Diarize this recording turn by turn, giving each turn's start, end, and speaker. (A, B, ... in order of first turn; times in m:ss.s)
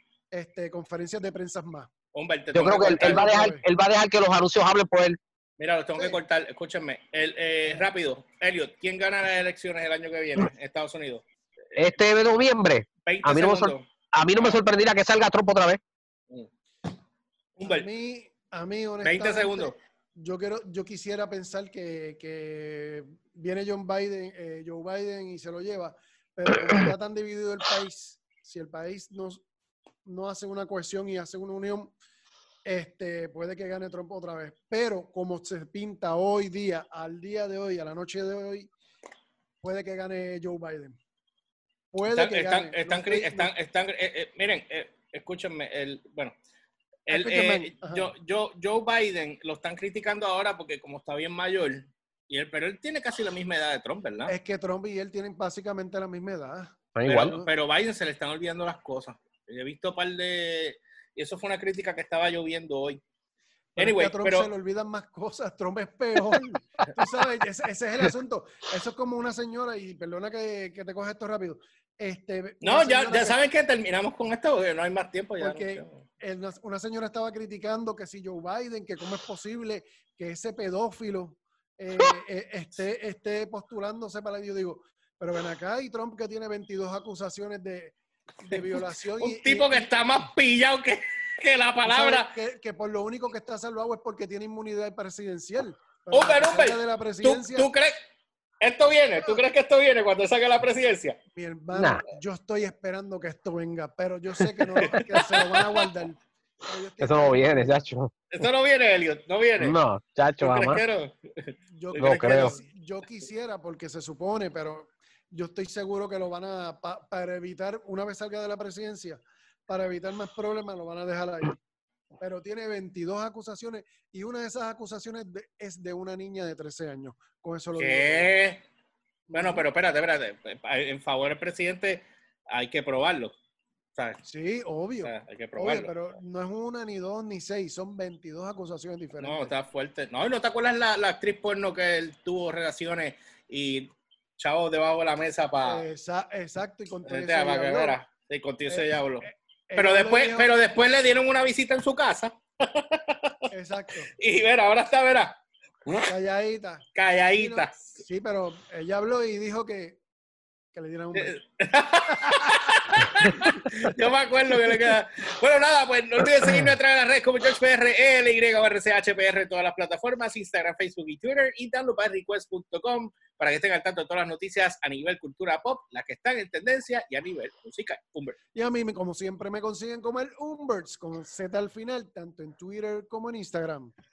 0:00.3-0:01.9 A
0:02.1-0:03.3 B
0:02.5-0:05.2 C
0:02.8-0:03.6 A
0:05.6-0:11.2 B
0:11.8-0:15.8 C
0:13.0-0:13.8 B
0:17.6-0:17.9 B
0:17.6-0:29.4 A
0:19.0-0:19.8 B
0:30.0-0:32.0 A
0:32.6-0:38.7 A
0:39.6-0:41.0 A
0:41.9-0:43.5 A
0:42.0-0:46.3 B
0:47.1-0:54.3 B
0:47.1-0:48.1 A
0:54.3-0:57.5 A
0:56.9-0:57.3 C
0:57.0-1:03.0 B
1:03.8-1:13.4 A
1:03.8-1:04.5 B
1:12.6-1:16.0 B
1:15.4-1:29.9 A
1:28.5-1:32.3 B
1:31.8-1:37.7 A
1:36.1-1:38.0 B
1:38.6-1:41.2 B
1:41.3-1:47.8 A
1:41.7-1:42.0 C
1:44.8-1:45.8 B
1:47.0-1:48.1 C
1:48.3-1:49.8 B
1:49.6-1:50.8 C
1:50.4-1:52.6 B
1:51.8-2:01.6 A
1:52.0-1:52.5 C
2:02.2-2:08.3 A
2:07.8-2:08.6 B
2:09.3-2:09.6 A
2:09.3-2:13.3 B
2:14.2-2:19.5 A
2:15.0-2:15.9 B
2:19.2-2:25.8 B
2:25.6-2:28.0 A
2:27.1-2:33.4 B
2:28.7-2:30.5 A
2:33.5-2:34.1 A
2:34.2-2:36.1 B
2:36.0-2:40.0 A
2:36.9-2:37.8 B
2:40.7-2:41.4 A
2:41.1-2:58.4 B
2:42.1-2:43.9 A
2:58.5-3:03.9 A